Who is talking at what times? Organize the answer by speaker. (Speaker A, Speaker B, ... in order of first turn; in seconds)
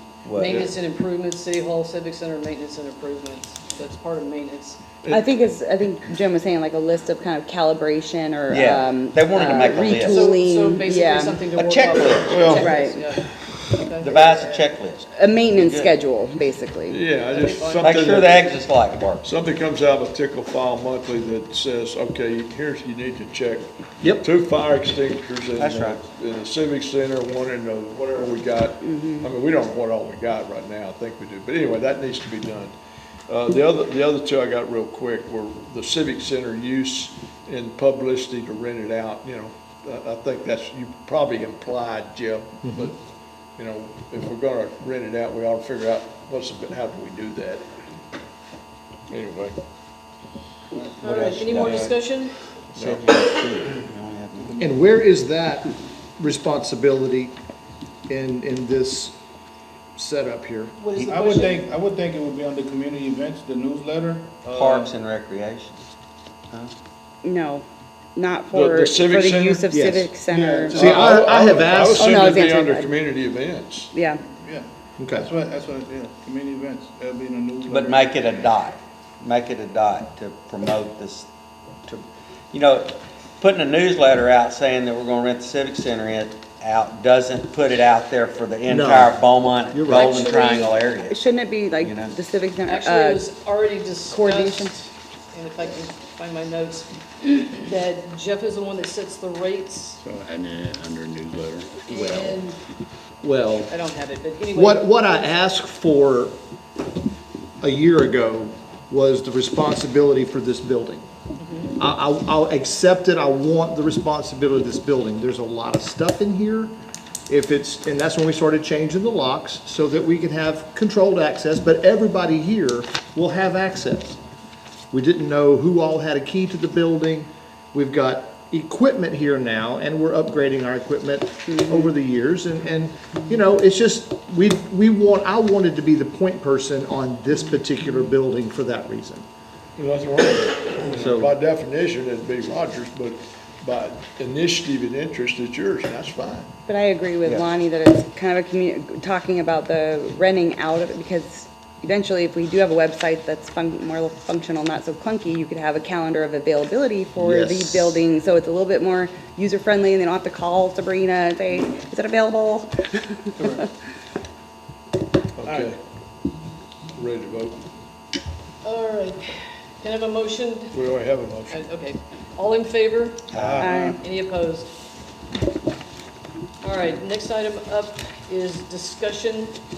Speaker A: 0.2-0.7, 8.5-10.3, 11.6-12.7, 14.0-15.9, 17.8-19.3, 25.6-26.0, 51.5-51.8, 52.7-54.5, 64.5-65.8, 77.7-81.3, 81.8-91.2, 91.8-92.2, 140.9-141.3, 173.3-173.7
Speaker B: 0.3-4.8, 10.0-14.6, 17.1-18.2, 51.0-52.3, 60.8-61.6, 89.9-90.7, 92.7-100.0, 101.9-102.5, 103.7-105.3, 111.4-111.8, 168.6-170.8, 171.5-174.7, 176.6-179.6
Speaker C: 5.0-5.3, 12.3-12.7, 16.9-18.5, 19.2-32.7, 33.3-43.0, 43.6-47.6, 49.1-49.5, 51.0-51.9, 52.7-53.0, 68.5-69.8, 70.8-73.9, 139.8-146.5, 165.4-165.8, 166.9-167.6, 170.7-171.6, 173.3-173.9
Speaker D: 5.1-11.4, 12.6-13.0, 15.1-17.0, 28.8-29.3, 67.2-70.9, 71.9-73.0, 73.9-74.2, 90.4-93.3, 94.1-94.8, 100.0-102.3, 131.5-131.8, 146.7-163.7, 173.6-174.0
Speaker E: 42.6-42.9, 54.6-57.3, 58.1-59.2, 60.0-60.8, 69.7-70.2, 70.7-72.2, 75.0-75.3, 88.7-90.3, 103.2-103.7, 104.5-106.3, 107.6-111.0, 111.8-116.7, 117.3-124.2, 124.9-139.2, 157.2-158.0
Speaker F: 54.4-54.9, 61.0-64.9, 70.3-71.2, 74.4-78.5